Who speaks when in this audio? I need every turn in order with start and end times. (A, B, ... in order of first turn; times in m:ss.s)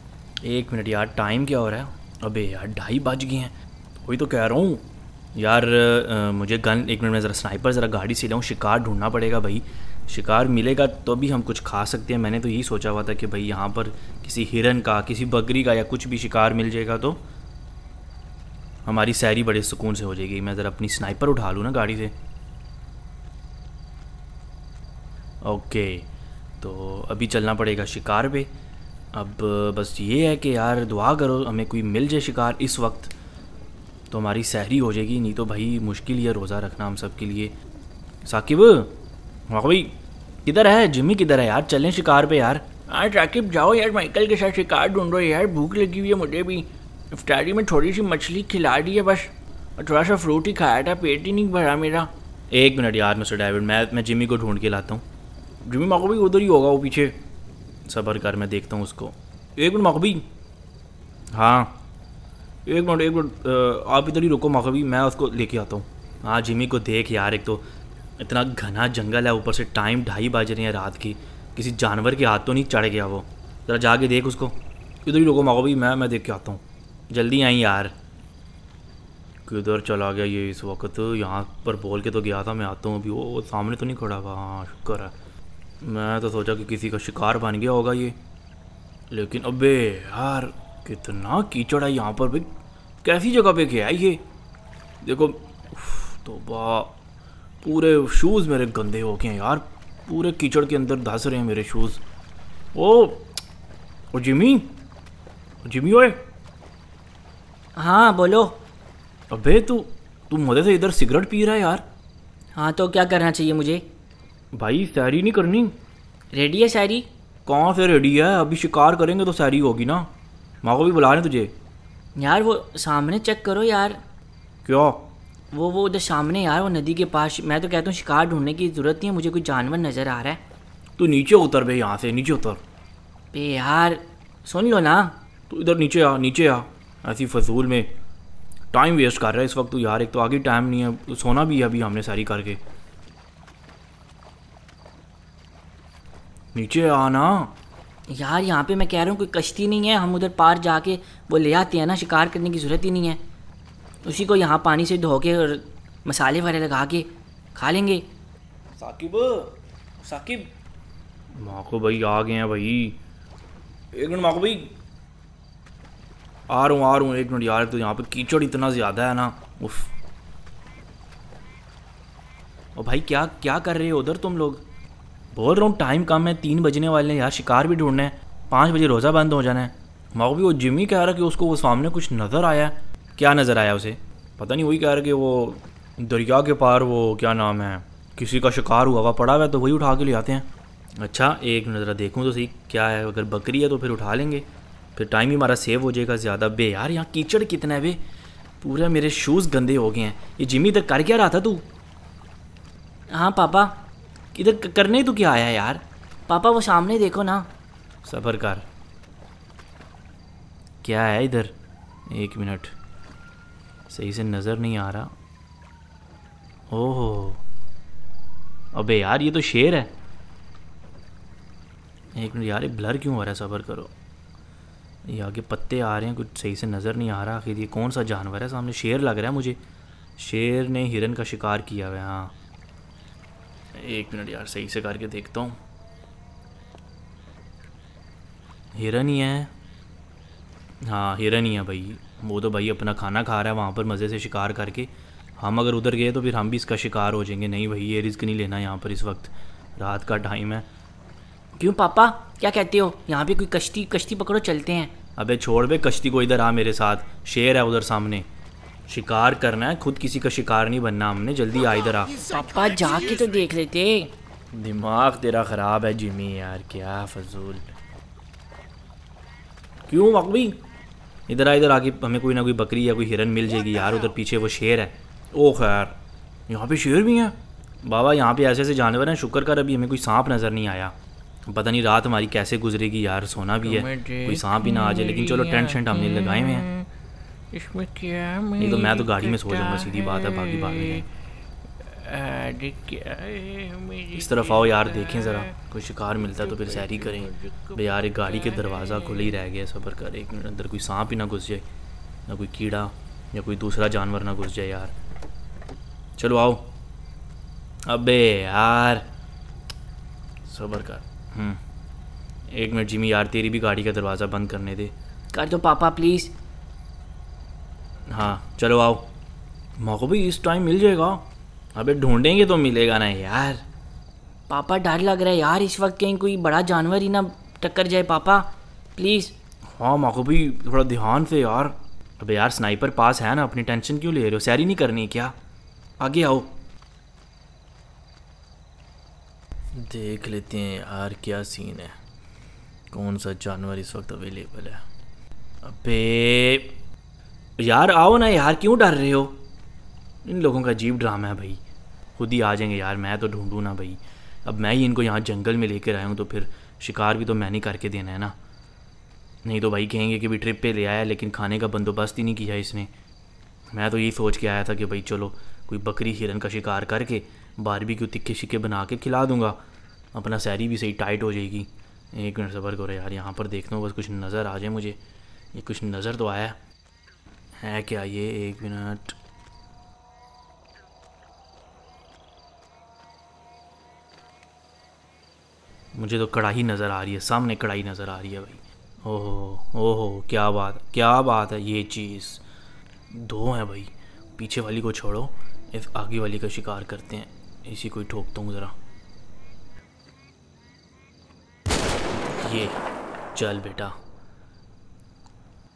0:00.4-0:17.2 A
0:18.8-0:22.1 A
0:25.4-0:26.1 A
0:26.6-0:28.5 A
0:29.1-0:33.1 A
0:34.1-0:37.5 A
0:38.2-0:39.0 A
0:39.5-0:42.6 A
0:42.9-0:52.1 B
0:52.5-0:55.0 A
0:55.6-0:57.2 A
0:57.9-1:00.2 A
1:01.3-1:01.8 A
1:02.6-1:07.6 A
1:08.2-1:17.9 A
1:19.4-1:25.1 A
1:25.8-1:28.2 A
1:29.1-1:32.5 A
1:33.0-1:34.2 A
1:35.0-1:36.9 A
1:37.6-1:42.0 A
1:42.7-1:43.3 A
1:44.1-1:44.8 A
1:45.6-1:46.2 A
1:47.8-1:48.6 C
1:49.3-1:51.8 A
1:52.5-1:53.8 C
1:54.5-1:55.7 A
1:56.3-1:57.0 C
1:57.4-2:00.1 A
2:00.6-2:01.5 A
2:02.2-2:04.0 C
2:04.6-2:05.0 A
2:05.5-2:10.4 C
2:11.0-2:12.6 A
2:13.3-2:15.2 C
2:15.5-2:17.9 A
2:18.7-2:22.6 A
2:26.5-2:27.5 A
2:28.1-2:33.2 C
2:34.0-2:38.0 C
2:38.8-2:40.5 A
2:41.3-2:43.0 A
2:43.9-2:44.7 A
2:46.5-2:49.9 A
2:52.7-2:54.6 A
2:55.3-3:10.5 A
3:11.0-3:18.0 A
3:18.6-3:21.6 A
3:23.1-3:23.8 C
3:24.3-3:25.8 A
3:26.3-3:27.5 C
3:28.0-3:28.6 A
3:30.8-3:31.5 A
3:32.1-3:32.7 A
3:33.9-3:35.1 A
3:36.7-3:37.4 A
3:38.7-3:39.9 A
3:42.2-3:43.9 A
3:45.0-3:49.6 A
3:50.2-3:52.3 A
3:53.7-3:55.6 A
3:58.7-3:59.5 A
4:00.8-4:10.6 A
4:11.6-4:14.9 C
4:15.2-4:18.2 A
4:18.9-4:22.2 A
4:22.2-4:24.1 C
4:24.5-4:27.7 A
4:29.9-4:30.6 A
4:31.3-4:36.0 A
4:36.5-4:40.9 A
4:41.5-4:46.7 A
4:43.6-4:46.9 B
4:47.5-4:51.0 B
4:48.6-4:51.0 A
4:51.8-4:55.5 B
4:54.1-5:01.6 A
4:56.2-4:59.4 B
5:02.3-5:04.9 A
5:06.2-5:06.7 A
5:07.8-5:09.1 A
5:10.4-5:11.6 A
5:12.5-5:14.9 A
5:15.3-5:16.3 C
5:18.1-5:19.1 A
5:19.8-5:23.6 A
5:24.5-5:29.3 C
5:29.7-5:35.3 A
5:36.0-5:36.5 C
5:39.7-5:42.0 A
5:42.9-5:44.8 A
5:45.6-5:46.7 A
5:47.6-5:49.4 A
5:50.2-5:51.6 A
5:52.2-5:58.3 A
5:59.4-6:02.9 A
6:03.7-6:09.6 A
6:10.1-6:15.0 A
6:15.5-6:16.6 A
6:17.6-6:19.2 A
6:25.9-6:32.4 A
6:33.1-6:38.8 A
6:42.3-6:42.8 A
6:43.3-6:44.0 A